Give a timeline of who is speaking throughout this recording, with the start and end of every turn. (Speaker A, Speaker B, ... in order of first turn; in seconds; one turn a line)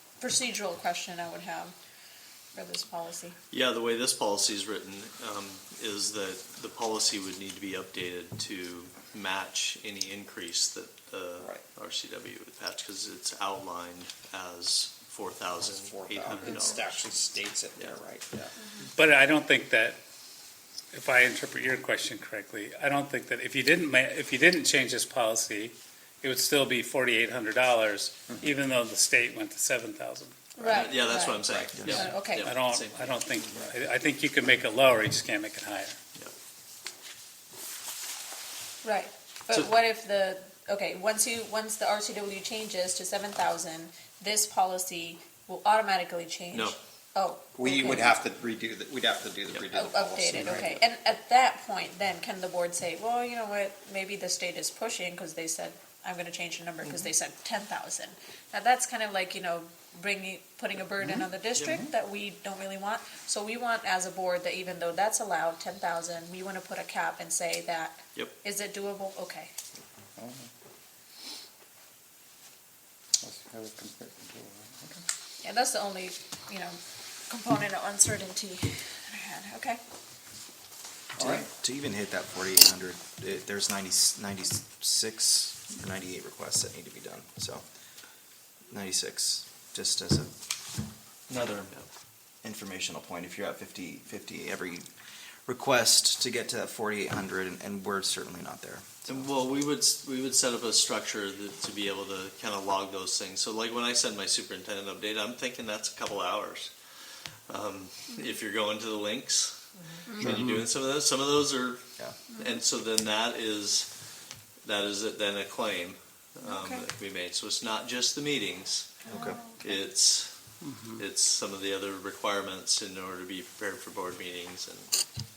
Speaker A: 0.2-1.7
Speaker A: 2.5-3.4
Speaker B: 3.5-16.9
Speaker C: 15.7-18.5
Speaker D: 18.9-20.0
Speaker D: 20.9-30.5
Speaker A: 30.6-32.5
Speaker B: 30.6-33.3
Speaker E: 31.5-32.0
Speaker D: 31.9-36.0
Speaker A: 38.8-48.2
Speaker C: 47.6-50.8
Speaker A: 49.7-69.5
Speaker C: 70.2-70.5
Speaker C: 73.2-75.0
Speaker A: 75.4-79.8
Speaker C: 81.2-81.5
Speaker E: 81.2-87.7
Speaker E: 88.7-90.4
Speaker E: 91.3-91.8
Speaker B: 91.3-91.8
Speaker E: 92.4-94.9
Speaker E: 95.5-99.3
Speaker B: 99.1-106.7
Speaker B: 107.5-113.9
Speaker D: 110.2-110.6
Speaker B: 114.6-119.1
Speaker E: 119.1-119.4
Speaker B: 119.6-120.3
Speaker D: 120.6-121.0
Speaker B: 121.0-125.0